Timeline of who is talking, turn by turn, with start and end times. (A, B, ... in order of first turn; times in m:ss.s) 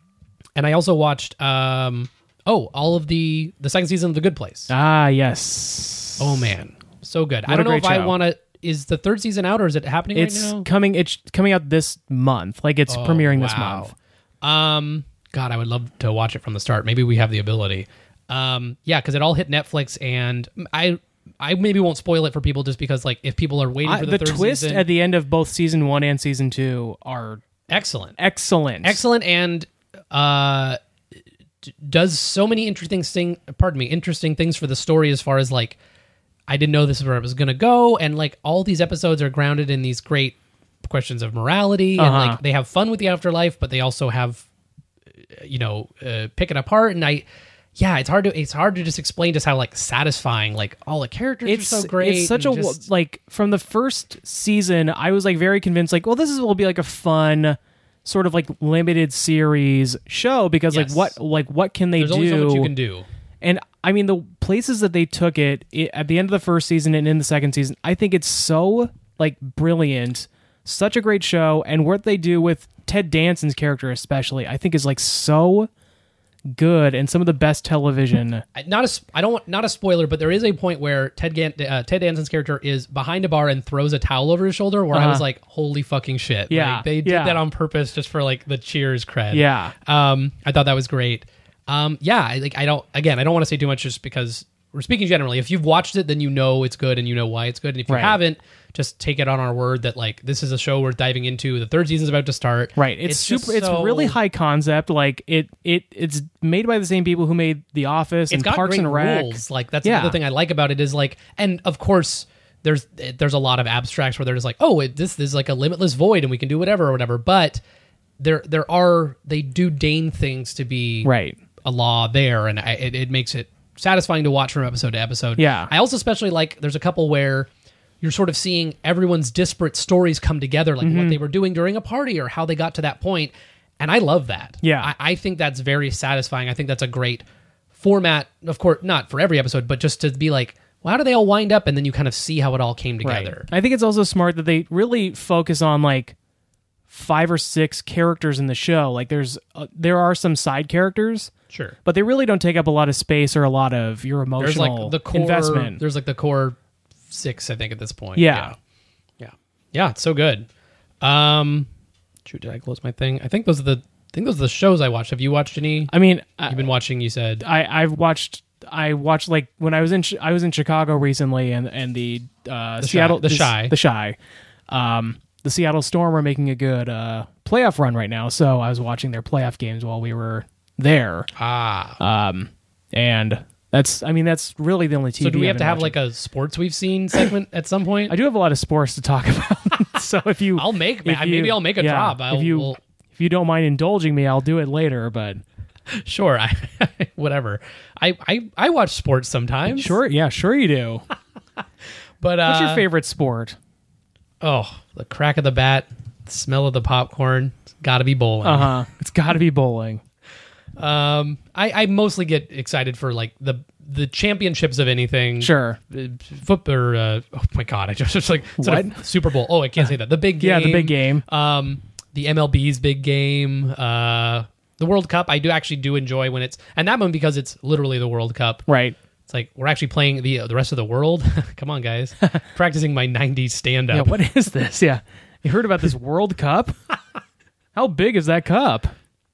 0:00.6-0:04.7 A
0:04.7-0:06.5 B
0:06.2-0:10.7 A
0:07.5-0:08.2 B
0:10.1-0:13.9 B
0:12.9-0:24.9 A
0:23.8-0:27.4 B
0:27.7-0:28.2 A
0:28.2-0:29.0 B
0:28.8-0:30.8 A
0:31.7-0:35.8 A
0:36.5-0:44.4 A
0:42.0-0:42.4 B
0:45.3-0:52.8 A
0:51.4-1:02.7 B
1:00.7-1:01.2 A
1:02.0-1:03.1 A
1:03.4-1:15.7 B
1:16.5-1:18.4 B
1:18.6-1:44.2 A
1:24.9-1:25.2 B
1:26.5-1:27.4 B
1:29.3-1:29.8 B
1:37.9-1:38.2 B
1:42.8-1:50.2 B
1:48.3-1:57.6 A
1:58.2-2:01.1 A
2:01.0-2:01.4 B
2:01.6-2:07.5 A
2:05.4-2:05.7 B
2:08.0-2:23.5 A
2:10.8-2:11.2 B
2:14.6-2:14.9 B
2:23.0-2:26.2 B
2:26.9-2:31.3 B
2:31.5-2:31.8 A
2:31.8-2:35.8 B
2:34.4-2:36.6 A
2:37.1-2:38.6 A
2:38.2-2:38.5 B
2:39.2-2:40.5 A
2:41.0-2:41.7 A
2:42.2-2:45.9 A
2:45.9-2:46.7 B
2:46.5-2:47.4 A
2:47.4-2:54.2 B
2:52.8-2:53.7 A
2:54.7-3:01.3 B
3:01.4-3:02.0 A
3:02.0-3:06.0 B
3:05.2-3:08.2 A
3:08.1-3:15.4 B
3:10.6-3:12.8 A
3:15.9-3:20.0 A
3:19.7-3:21.0 B
3:22.2-3:22.8 A
3:22.4-3:23.6 B
3:24.4-3:28.8 A
3:28.4-3:30.0 B
3:30.8-3:48.6 A
3:35.4-3:35.8 B
3:38.6-3:39.0 B
3:40.4-3:41.2 B
3:48.7-3:49.0 B
3:49.3-3:54.2 A
3:53.9-3:56.8 B
3:57.8-3:58.9 B